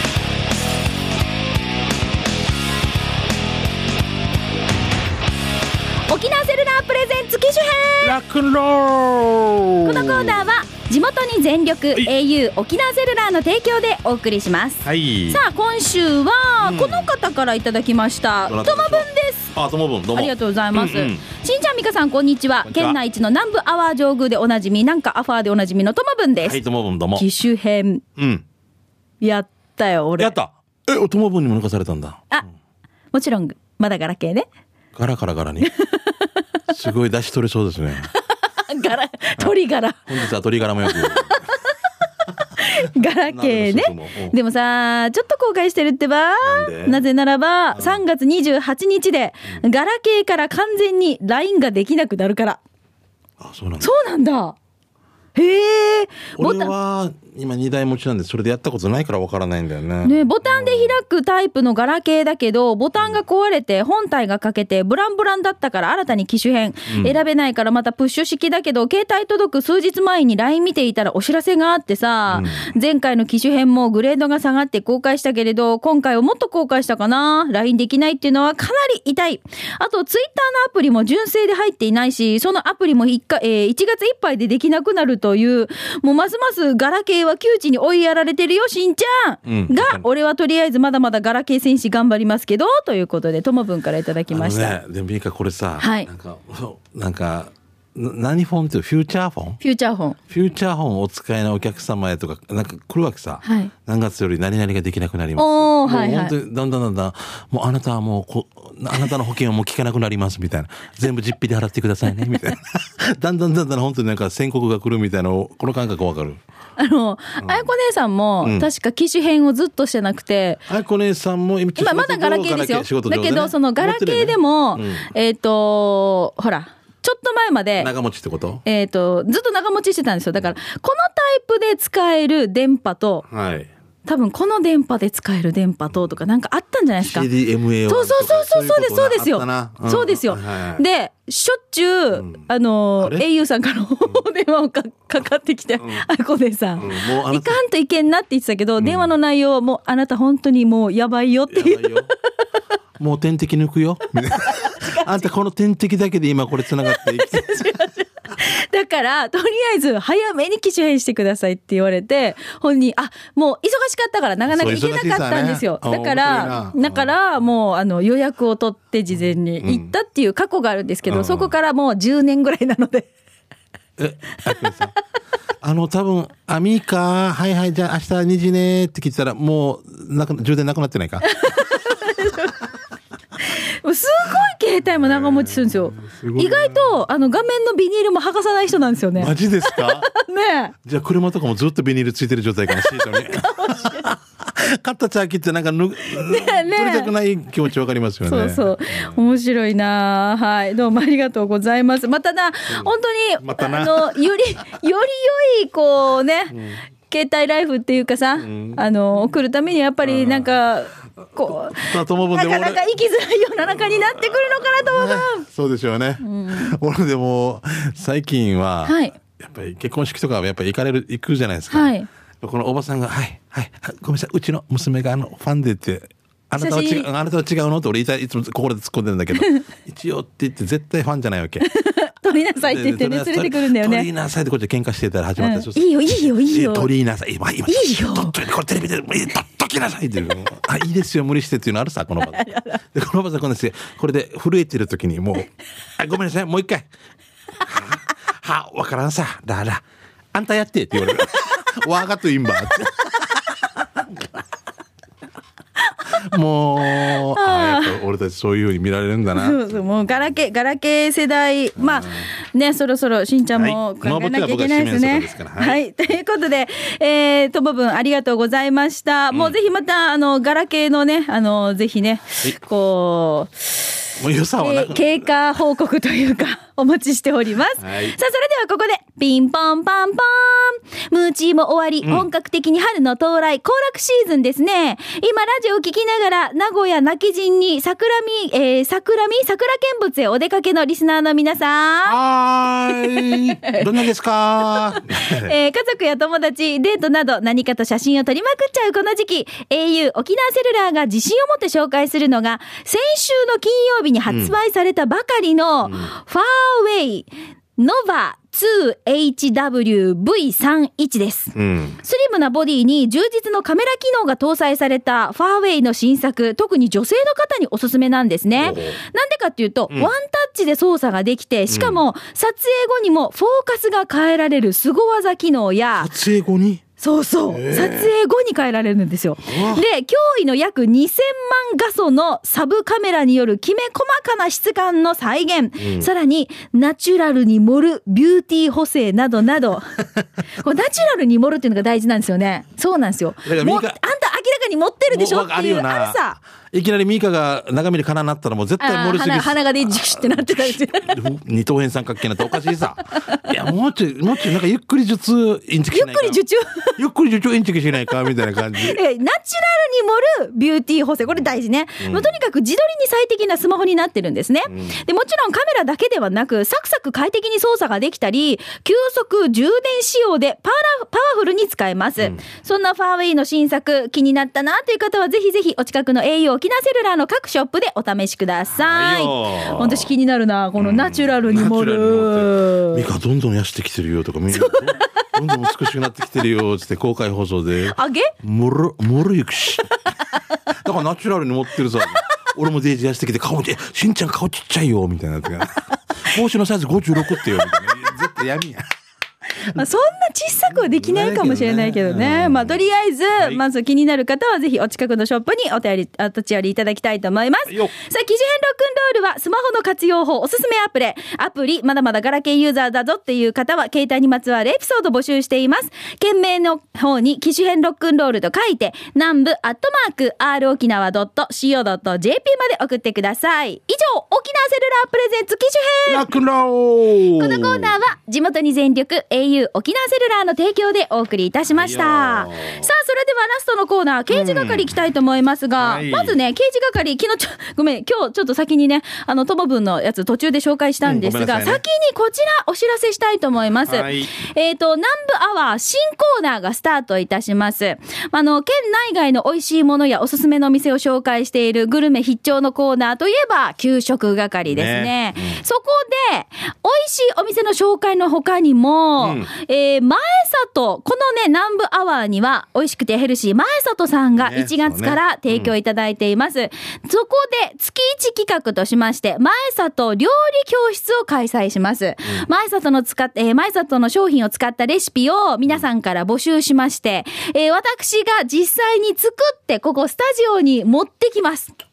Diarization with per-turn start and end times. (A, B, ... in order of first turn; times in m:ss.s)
0:06.1-0:08.2 A
0:08.0-0:10.5 B
0:09.8-0:19.5 A
0:14.8-0:15.4 B
0:16.6-0:17.1 B
0:18.4-0:21.2 B
0:20.1-0:26.6 A
0:22.6-0:23.0 B
0:26.4-0:27.2 B
0:27.1-0:28.0 A
0:28.2-0:28.4 B
0:29.2-0:30.3 A
0:30.2-0:32.3 B
0:33.1-0:34.5 A
0:34.9-0:35.7 B
0:35.6-0:36.3 A
0:36.7-0:38.1 B
0:38.1-0:40.1 A
0:40.1-0:41.4 B
0:40.8-0:41.7 A
0:42.6-0:52.6 A
0:43.3-0:44.4 B
0:46.4-0:47.0 B
0:47.7-0:48.0 B
0:53.4-0:53.9 B
0:53.8-0:54.6 A
0:55.4-0:56.7 A
0:56.4-1:01.0 B
1:00.0-1:34.8 A
1:06.9-1:07.2 B
1:12.3-1:12.7 B
1:29.4-1:30.0 B
1:34.3-1:39.6 B
1:35.8-1:36.1 A
1:39.6-1:40.2 A
1:40.3-1:56.4 B
1:43.4-1:43.7 A
1:45.4-1:46.3 A
1:56.8-2:00.6 A
1:57.4-1:57.7 B
1:58.4-1:58.7 B
2:00.7-2:05.1 B
2:01.8-2:07.9 A
2:07.8-2:08.6 B
2:08.6-2:13.2 A
2:13.3-2:13.7 B
2:14.0-2:17.3 A
2:17.0-2:20.8 B
2:17.9-2:32.1 A
2:22.1-2:22.4 B
2:23.0-2:23.2 B
2:25.8-2:26.0 B
2:26.8-2:27.6 B
2:28.8-2:29.1 B
2:31.5-2:32.1 B
2:33.0-2:37.8 B
2:34.3-2:35.2 A
2:36.8-2:53.1 A
2:44.4-2:47.1 B
2:49.6-2:49.9 B
2:51.1-2:51.5 B
2:54.0-2:54.9 B
2:55.6-3:01.3 B
3:01.2-3:02.6 A
3:03.4-3:10.7 A
3:05.0-3:07.0 B
3:09.1-3:10.1 B
3:10.8-3:19.2 B
3:12.7-3:14.1 A
3:16.1-3:17.1 A
3:18.2-3:35.4 A
3:23.4-3:24.2 B
3:26.5-3:26.8 B
3:28.4-3:28.8 B
3:30.0-3:30.5 B
3:31.4-3:32.8 B
3:34.6-3:51.6 B
3:36.2-3:36.7 A
3:38.8-3:39.1 A
3:41.7-3:42.1 A
3:46.6-3:47.1 A
3:49.3-3:49.7 A
3:51.6-3:54.1 A
3:52.6-4:06.9 B
3:55.4-3:56.9 A
3:57.7-3:58.4 A
4:02.2-4:02.8 A
4:07.6-4:09.8 B
4:10.3-4:14.0 B
4:16.1-4:20.1 B
4:16.9-4:18.0 A
4:19.3-4:34.0 A
4:21.8-4:22.3 B
4:23.5-4:25.8 B
4:34.2-4:35.3 B
4:34.6-4:52.2 A
4:37.8-4:38.2 B
4:42.0-4:42.3 B
4:52.0-4:55.5 B
4:53.0-4:53.9 A
4:54.7-5:26.1 A
5:04.3-5:04.5 B
5:05.8-5:06.1 B
5:11.5-5:12.0 B
5:18.6-5:19.0 B
5:21.7-5:22.0 B
5:26.0-5:26.8 B
5:27.0-5:39.9 A
5:27.5-5:28.1 B
5:29.4-5:29.8 B
5:35.8-5:36.1 B
5:40.6-5:46.4 A
5:43.4-5:44.0 B
5:45.1-5:56.4 B
5:48.8-5:51.2 A
5:53.2-5:53.5 A
5:55.9-5:57.0 A
5:57.0-5:59.0 B
5:58.7-6:23.0 A
6:02.0-6:02.3 B
6:04.7-6:05.0 B
6:18.8-6:20.1 B
6:20.8-6:30.0 B
6:24.5-6:25.2 A
6:27.8-6:28.3 A
6:30.7-6:38.8 B
6:37.3-6:37.8 A
6:39.6-6:39.8 B
6:39.7-7:06.3 A
6:40.7-6:42.8 B
6:43.3-6:43.6 B
6:47.7-6:47.9 B
7:06.1-7:08.0 B
7:07.4-8:01.7 A
7:11.7-7:12.9 B
7:14.3-7:14.9 B
7:15.8-7:16.4 B
7:21.0-7:21.8 B
7:23.8-7:24.3 B
7:34.7-7:35.6 B
7:39.2-7:39.5 B
7:44.4-7:45.7 B